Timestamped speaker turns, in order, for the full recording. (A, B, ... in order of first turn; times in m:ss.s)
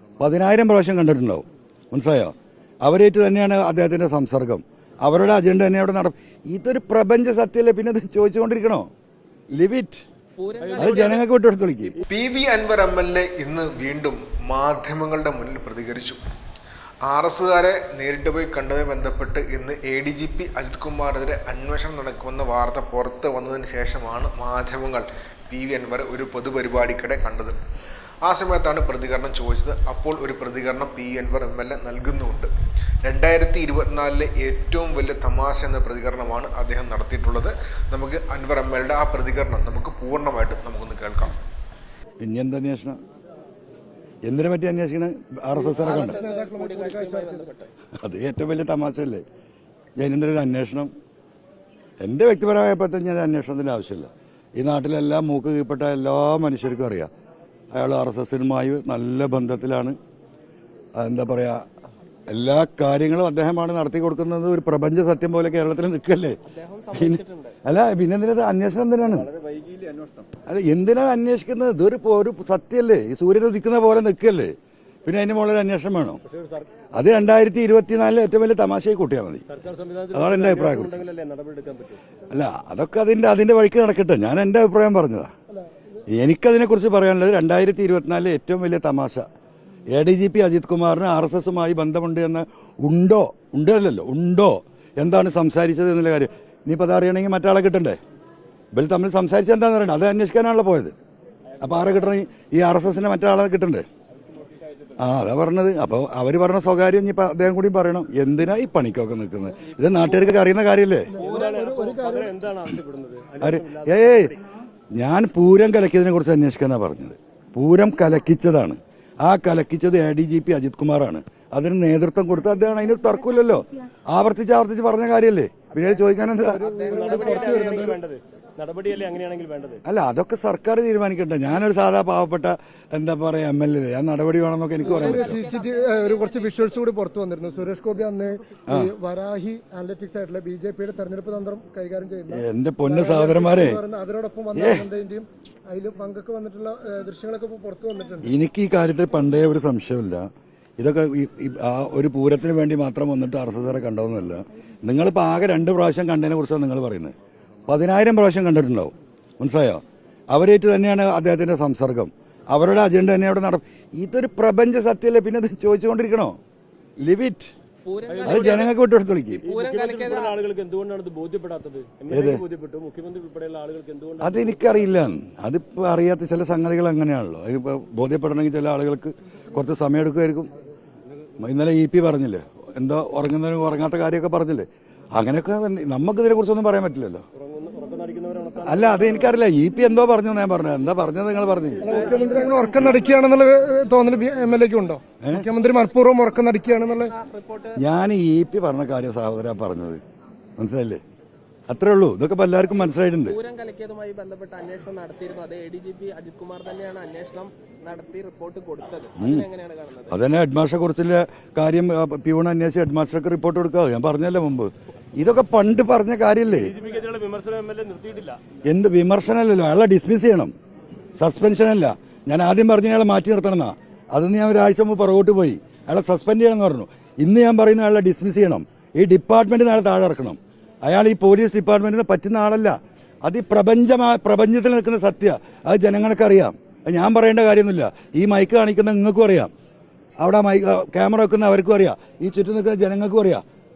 0:00.2-0:08.9 A
0:09.5-0:10.0 A
0:10.4-0:10.8 B
0:10.6-0:11.2 C
0:10.8-0:12.0 A
0:12.1-0:16.2 D
0:17.0-0:27.6 D
0:28.2-0:32.5 D
0:33.0-0:41.4 D
0:42.2-0:43.0 A
0:44.3-0:46.2 A
0:45.6-0:47.5 E
0:45.7-0:47.7 B
0:48.0-0:49.2 A
0:50.0-0:50.9 A
0:52.0-0:57.1 A
0:57.7-1:00.0 A
1:01.0-1:01.6 A
1:02.3-1:06.4 A
1:06.5-1:07.5 B
1:06.9-1:09.3 A
1:09.1-1:10.3 C
1:10.4-1:14.5 A
1:15.0-1:16.2 A
1:16.2-1:16.9 C
1:16.9-1:19.4 A
1:19.5-1:22.0 C
1:20.1-1:21.0 A
1:22.3-1:25.3 A
1:26.1-1:29.2 A
1:29.9-1:38.0 A
1:38.7-1:40.9 A
1:41.6-1:43.8 A
1:45.0-1:51.1 A
1:51.1-1:52.4 E
1:51.2-1:54.4 C
1:53.4-1:54.3 A
1:54.9-2:06.6 A
2:06.4-2:08.0 E
2:06.6-2:07.5 B
2:06.8-2:09.8 C
2:09.8-2:15.4 A
2:14.8-2:16.8 B
2:14.8-2:28.3 E
2:22.3-2:23.8 A
2:24.5-2:24.8 A
2:28.2-2:37.1 A
2:37.7-2:46.4 A
2:47.0-2:47.5 A
2:47.8-2:48.6 B
2:48.1-2:48.7 C
2:48.2-2:49.5 A
2:49.4-2:55.1 C
2:49.5-2:50.4 B
2:52.1-2:52.4 A
2:54.2-3:00.5 A
3:01.4-3:07.2 A
3:07.4-3:09.3 C
3:08.6-3:12.0 A
3:11.8-3:17.1 E
3:11.9-3:12.7 C
3:15.2-3:15.4 A
3:17.1-3:17.8 B
3:17.8-3:20.0 A
3:20.6-3:21.0 A
3:21.7-3:23.4 A
3:23.2-3:30.2 B
3:29.2-3:29.5 A
3:30.1-3:36.7 A
3:36.6-3:38.4 C
3:38.6-3:40.5 A
3:41.2-3:59.5 A
4:00.2-4:03.4 A